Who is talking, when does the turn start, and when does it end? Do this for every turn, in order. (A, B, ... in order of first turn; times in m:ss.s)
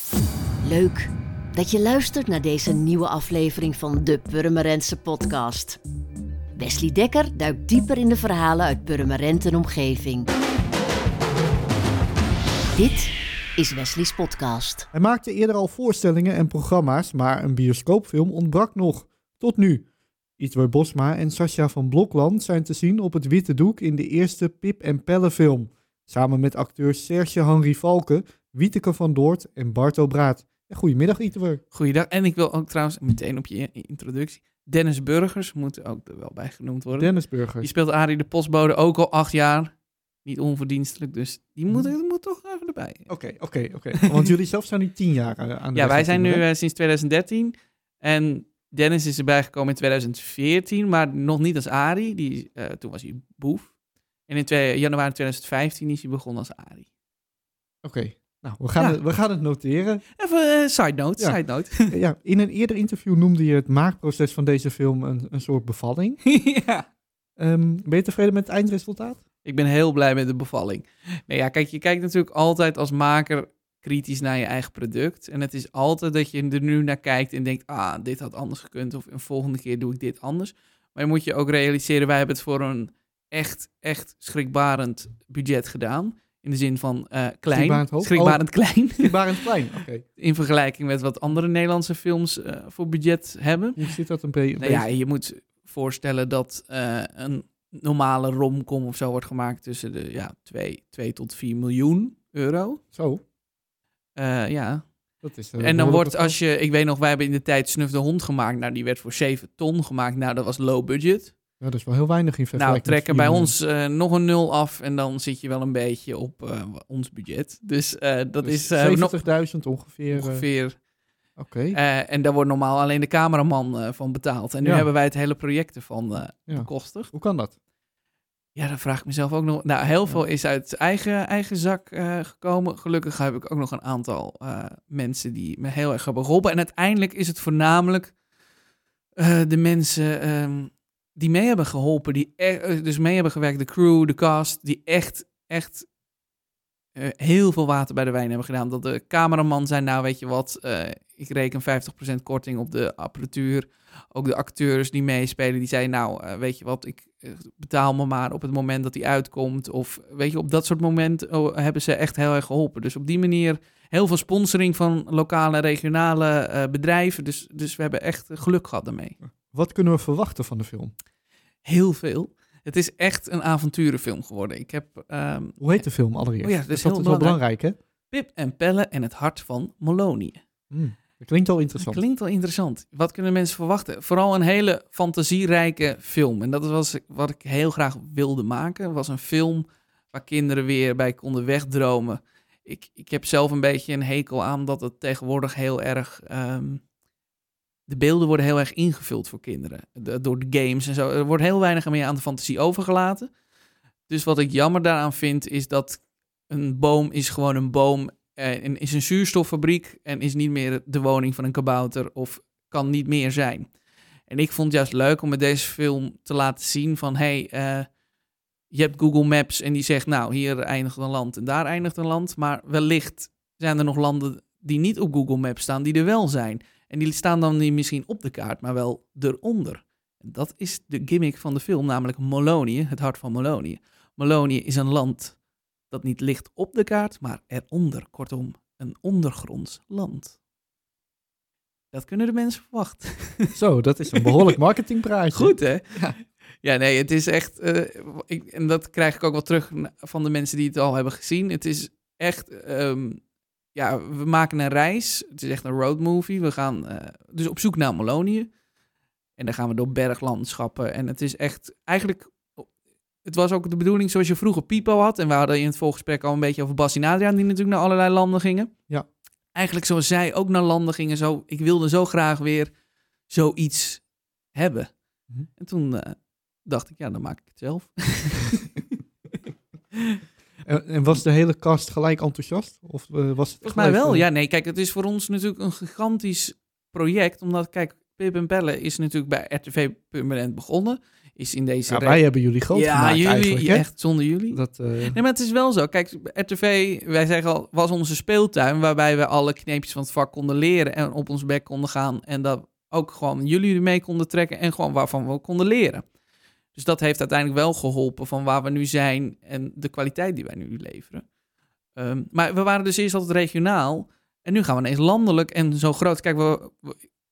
0:00.6-0:05.8 A
0:06.6-0:10.3 A
0:12.8-0:14.9 A
0:14.9-0:19.9 B
0:20.4-0:31.6 B
0:31.7-0:43.1 C
0:37.0-0:37.7 B
0:43.1-0:46.4 B
0:44.0-0:44.3 C
0:45.8-0:53.7 C
0:54.3-0:56.9 C
0:57.8-1:00.0 B
1:00.2-1:02.0 C
1:01.2-1:06.2 B
1:06.3-1:06.9 C
1:07.4-1:09.2 B
1:09.4-1:29.5 C
1:27.5-1:30.0 B
1:30.2-1:33.8 C
1:33.8-1:34.9 B
1:34.6-1:42.8 C
1:42.9-1:43.2 B
1:44.2-1:44.9 C
1:45.2-1:46.4 B
1:45.6-1:51.4 C
1:51.6-1:53.5 B
1:52.6-1:59.2 C
1:58.4-2:00.5 B
2:00.1-2:00.8 C
2:01.4-2:01.8 B
2:01.7-2:07.1 C
2:04.6-2:04.9 B
2:06.5-2:07.6 B
2:08.6-2:18.2 C
2:19.2-2:25.9 C
2:27.0-2:49.2 C
2:49.2-2:50.9 B
2:51.6-2:55.8 C
2:55.6-2:57.8 B
2:56.4-2:57.4 C
2:58.1-3:00.4 C
3:00.7-3:02.0 B
3:01.8-3:16.8 C
3:17.9-3:23.3 C
3:24.1-3:33.7 C
3:34.3-3:37.9 C
3:38.7-3:55.4 C
3:55.9-4:00.4 C
4:01.9-4:03.6 C
4:03.5-4:06.2 B
4:04.2-4:04.6 C
4:05.3-4:13.2 C
4:13.7-4:18.5 C
4:19.4-4:22.7 C
4:23.2-4:28.7 C
4:29.5-4:32.7 C
4:33.3-4:34.9 C
4:35.6-4:38.8 C
4:40.6-4:44.2 B
4:43.6-5:06.1 C
4:51.9-4:53.9 B
4:54.5-4:55.2 B
5:06.7-5:11.3 C
5:12.0-5:17.0 C